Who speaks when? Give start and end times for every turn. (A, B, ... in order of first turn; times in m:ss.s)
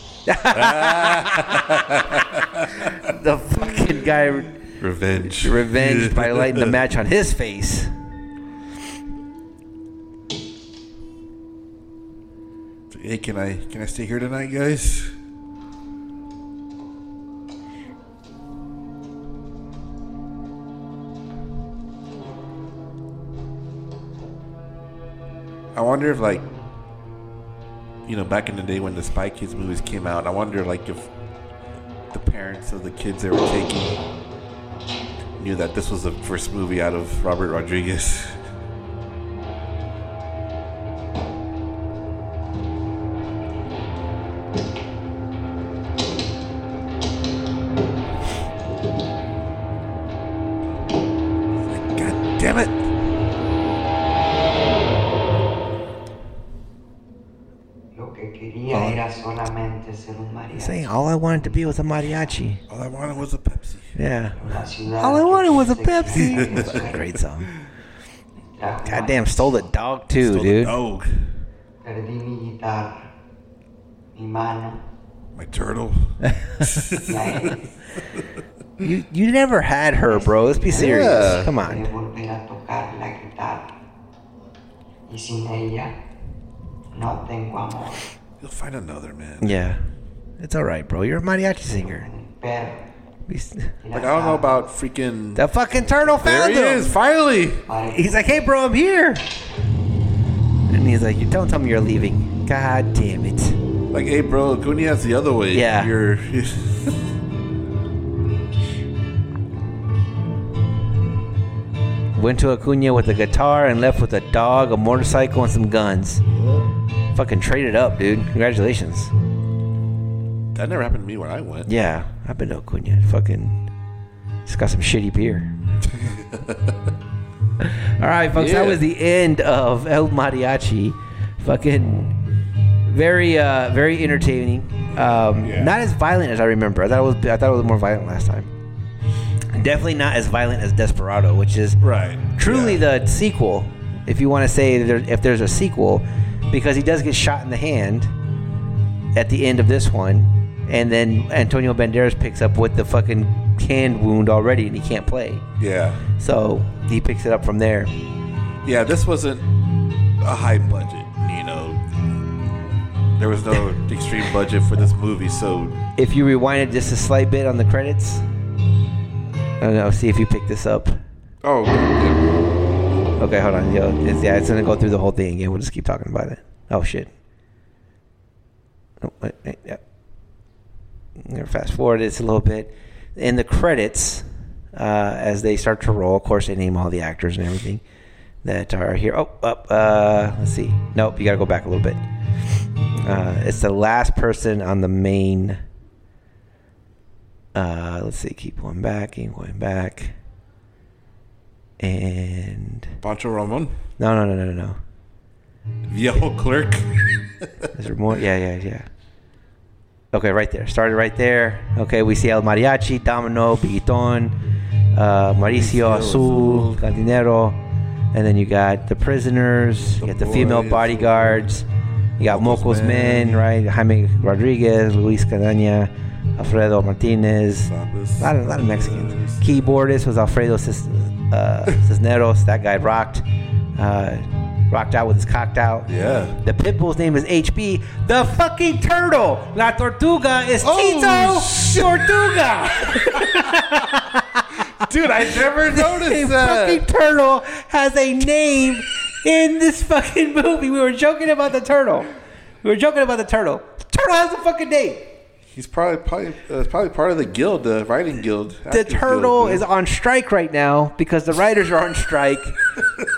0:00.3-0:01.7 A
0:00.5-0:03.1 B
0:03.0-0:04.6 A
0:04.8-0:06.8 B
0:05.2-0:07.9 A
0:12.9-0:15.2 B
0:25.7-0:26.4 B
0:28.1-0:31.1 B
0:32.1-0:34.0 B
0:35.4-0:38.4 B
0:51.7-0:52.9 B
0:57.9-1:01.5 C
0:58.7-0:59.0 A
1:00.5-1:02.6 A
1:02.7-1:04.0 B
1:04.0-1:04.4 A
1:04.4-1:07.0 C
1:05.0-1:07.5 A
1:06.1-1:07.0 B
1:08.5-1:09.6 C
1:08.8-1:10.8 A
1:10.1-1:11.3 B
1:11.8-1:13.0 C
1:14.1-1:14.8 C
1:15.4-1:17.6 B
1:16.3-1:16.7 A
1:17.1-1:17.7 C
1:18.8-1:21.9 A
1:20.1-1:23.7 C
1:20.7-1:21.5 B
1:25.1-1:25.9 C
1:26.9-1:28.0 C
1:28.4-1:29.6 B
1:29.4-1:29.8 A
1:30.4-1:32.1 A
1:31.8-1:32.8 C
1:33.3-1:33.7 A
1:33.8-1:34.5 C
1:33.9-1:35.4 B
1:35.4-1:36.9 A
1:36.0-1:37.7 B
1:37.7-1:38.3 C
1:37.9-1:39.2 A
1:40.7-1:43.6 A
1:43.9-1:47.0 B
1:45.5-1:45.9 A
1:52.2-1:56.2 A
1:57.1-1:59.1 A
2:00.5-2:01.7 B
2:01.7-2:03.6 A
2:04.4-2:05.5 A
2:05.8-2:06.8 B
2:07.6-2:12.1 A
2:08.3-2:08.8 B
2:12.9-2:18.5 A
2:14.9-2:15.8 B
2:19.5-2:21.8 A
2:21.8-2:22.8 B
2:22.4-2:28.1 A
2:29.2-2:35.4 A
2:35.6-2:36.0 B
2:36.2-2:37.9 A
2:38.6-2:39.5 B
2:40.2-2:41.9 B
2:43.2-2:45.8 B
2:46.0-2:48.2 A
2:49.6-2:51.0 A
2:51.4-2:52.2 B
2:53.2-2:57.1 A
2:59.0-2:59.8 A
3:01.2-3:07.8 A
3:08.4-3:12.0 A
3:13.0-3:15.6 A
3:17.6-3:20.2 A
3:21.8-3:23.0 A
3:23.0-3:23.8 B
3:24.0-3:24.8 A
3:25.9-3:27.7 B
3:27.7-3:28.9 A
3:30.1-3:34.3 A
3:34.9-3:37.6 A
3:35.4-3:36.9 B
3:38.1-3:41.7 A
3:40.0-3:41.5 B
3:42.2-3:53.2 A
3:42.2-3:43.4 B
3:47.6-3:49.9 B
3:53.8-3:55.9 A
3:55.9-3:56.4 B
3:56.4-4:04.6 A
4:00.6-4:03.7 B
4:04.8-4:06.8 B
4:05.2-4:12.1 A
4:12.6-4:15.1 A
4:15.5-4:19.7 B
4:18.7-4:22.6 A